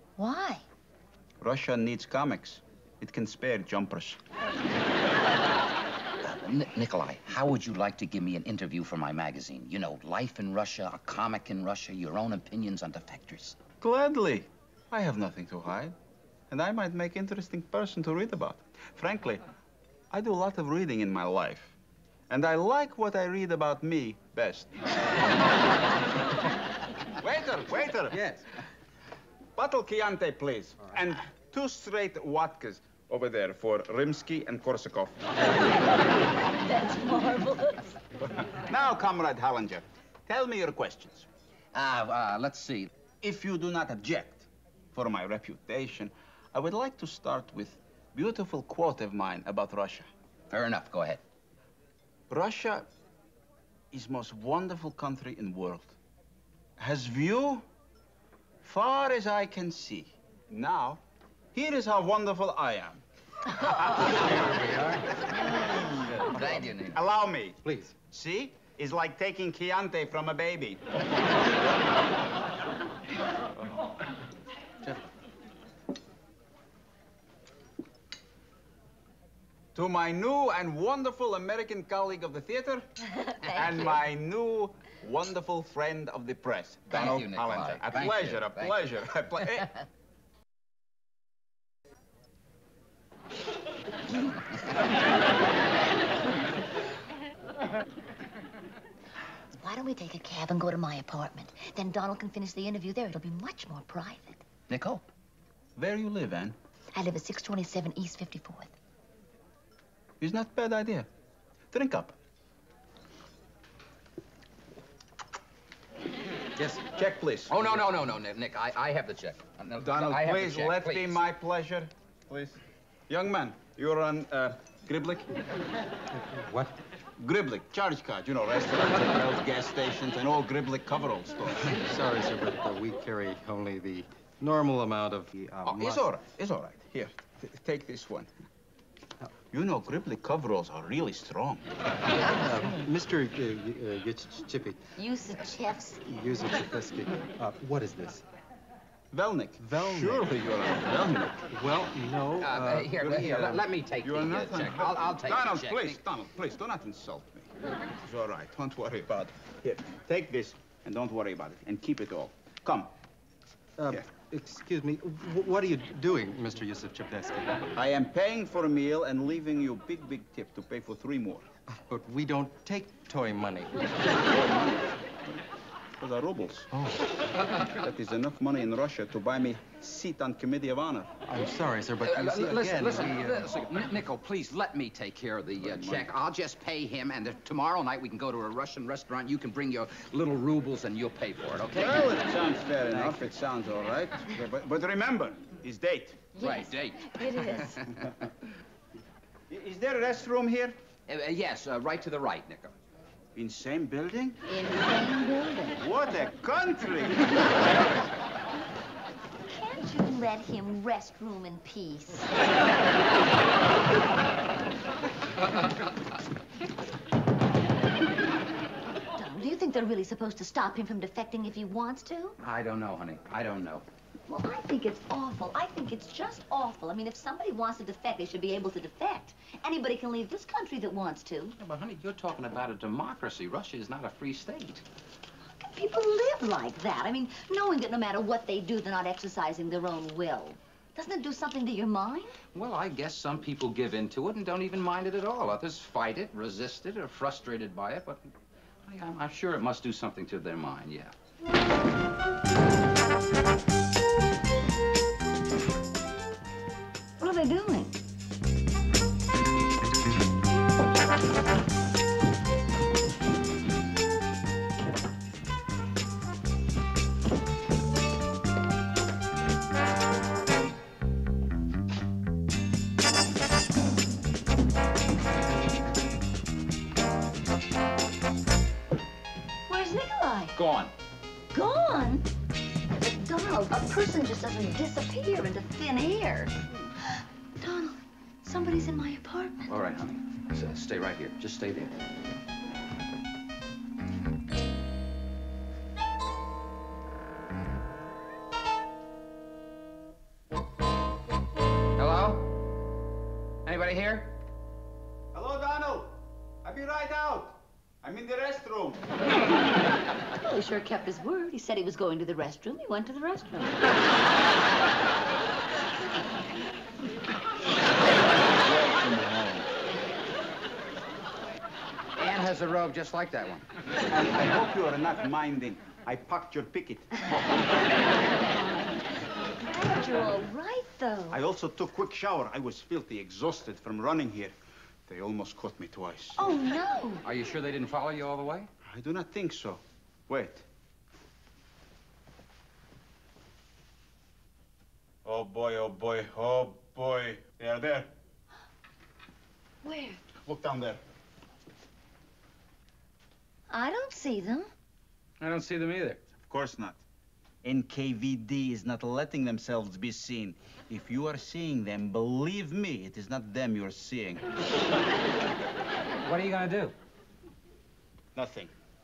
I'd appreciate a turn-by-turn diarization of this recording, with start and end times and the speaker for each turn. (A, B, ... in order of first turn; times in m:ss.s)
0:00.2-0:00.6 A
0:01.4-0:04.2 B
0:06.2-0:13.6 C
0:13.8-0:15.9 B
0:16.5-0:19.4 B
0:20.1-0:21.7 B
0:22.3-0:24.7 B
0:27.2-0:28.2 B
0:29.6-0:35.2 B
0:36.0-0:38.0 A
0:38.5-0:41.3 B
0:41.7-0:42.9 C
0:43.2-0:50.1 B
0:50.5-0:51.2 C
0:52.3-0:52.9 B
0:53.9-0:56.0 B
0:56.8-0:57.6 B
0:58.6-1:01.0 B
1:01.5-1:03.0 B
1:03.5-1:04.2 A
1:04.0-1:04.3 B
1:04.4-1:04.8 D
1:05.2-1:10.8 B
1:06.2-1:07.0 C
1:19.7-1:22.9 B
1:23.0-1:23.8 A
1:23.5-1:29.8 B
1:26.9-1:29.6 C
1:39.6-1:44.4 A
1:44.7-1:45.0 C
1:45.8-1:46.6 B
1:46.9-1:48.7 A
1:50.2-1:51.1 B
1:51.7-1:52.2 B
1:56.9-1:57.6 B
1:57.5-2:01.2 C
1:59.8-2:05.3 B
2:07.2-2:11.8 B
2:11.8-2:16.0 D
2:15.6-2:18.3 B
2:19.5-2:21.6 B
2:22.4-2:22.9 A
2:22.4-2:24.8 D
2:25.0-2:26.1 A
2:26.1-2:28.2 D
2:29.1-2:31.4 B
2:29.6-2:30.2 D
2:31.5-2:33.4 D
2:32.3-2:36.0 C
2:34.0-2:42.9 B
2:43.8-2:47.5 D
2:47.7-2:51.5 B
2:51.9-2:53.7 D
2:54.1-2:55.4 B
2:56.0-2:56.7 B
2:57.7-3:01.1 B
3:01.3-3:03.2 D
3:02.0-3:12.1 C
3:05.6-3:06.1 B
3:11.7-3:16.3 B
3:12.9-3:13.3 C
3:16.3-3:17.8 A
3:16.4-3:18.1 C
3:19.5-3:20.8 B
3:21.1-3:22.7 C
3:23.3-3:24.4 B
3:24.5-3:25.8 A
3:25.8-3:27.4 B
3:29.5-3:32.3 A
3:39.1-3:42.4 A
3:42.4-3:43.8 C
3:44.3-3:51.6 A
3:51.6-3:54.8 C
3:55.6-4:02.4 A
4:02.5-4:08.3 C
4:08.8-4:11.1 C
4:17.2-4:17.9 A
4:39.7-4:40.5 A
4:40.5-4:40.9 C
4:41.5-4:42.2 A
4:43.0-4:46.6 A
4:47.1-4:49.7 A
4:49.7-4:52.0 C
5:02.0-5:02.5 C
5:03.6-5:04.4 C
5:05.3-5:09.0 B
5:10.4-5:13.8 A
5:18.4-5:19.7 B
5:22.2-5:23.6 C
5:24.1-5:27.1 B
5:29.6-5:31.4 A
5:31.3-5:34.6 B
5:35.1-5:36.4 B
5:36.4-5:37.2 A
5:37.2-5:38.7 C
5:38.8-5:40.6 B
5:45.2-5:48.1 B
5:49.8-5:50.2 A
5:50.4-5:51.0 B
5:53.7-5:54.7 A
5:55.4-5:56.2 C
5:56.4-5:57.0 B
5:57.6-6:04.4 B
6:06.2-6:06.9 C
6:08.3-6:08.7 B